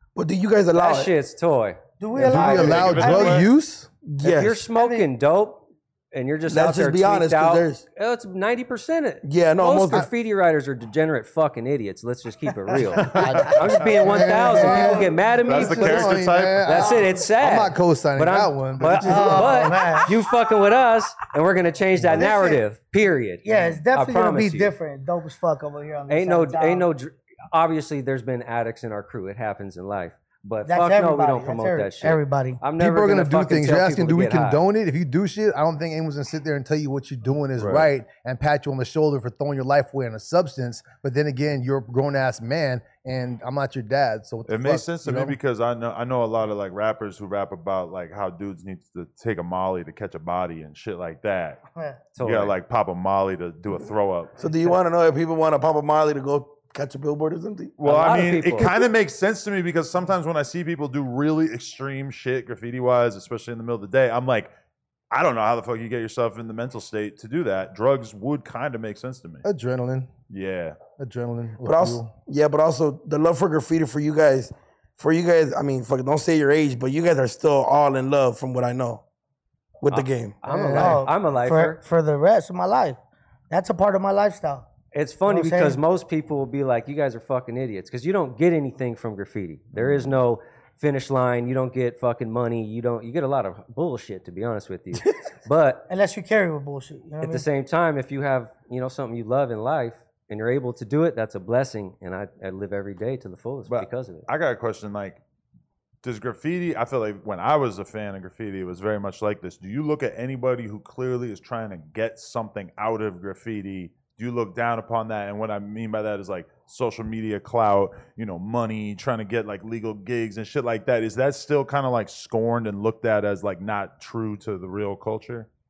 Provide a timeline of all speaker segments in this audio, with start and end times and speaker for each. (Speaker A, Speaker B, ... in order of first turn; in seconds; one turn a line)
Speaker A: 0.1-1.1
Speaker B: 0.8-1.8
Speaker C: 2.0-3.5
Speaker D: 2.1-3.9
Speaker E: 2.2-3.5
Speaker A: 4.0-4.6
Speaker B: 4.2-24.7
Speaker C: 4.7-5.1
Speaker A: 6.5-7.8
Speaker A: 9.2-10.1
Speaker E: 12.9-13.9
Speaker D: 13.1-19.8
Speaker C: 14.1-15.1
Speaker E: 15.4-16.9
Speaker C: 19.0-20.1
Speaker A: 19.2-19.7
Speaker C: 22.1-22.6
Speaker C: 23.4-26.9
Speaker B: 26.1-34.6
Speaker C: 30.6-32.6
Speaker D: 32.8-45.4
Speaker E: 37.6-37.9
Speaker E: 44.5-51.6
Speaker B: 52.1-52.5
Speaker E: 52.2-54.4
Speaker A: 54.4-57.7
Speaker B: 54.5-54.8
Speaker E: 57.8-64.5
Speaker B: 57.8-58.7
Speaker E: 65.1-69.4
Speaker D: 69.4-70.1
Speaker E: 70.3-70.8
Speaker D: 71.0-72.1
Speaker A: 71.6-79.0
Speaker A: 79.8-80.4
Speaker B: 79.9-81.8
Speaker D: 80.5-81.0
Speaker C: 80.6-83.0
Speaker C: 83.5-84.7
Speaker B: 84.9-95.9
Speaker C: 85.2-85.8
Speaker E: 89.7-90.1
Speaker C: 95.9-97.5
Speaker B: 97.2-104.3
Speaker E: 103.7-105.2
Speaker E: 106.0-125.5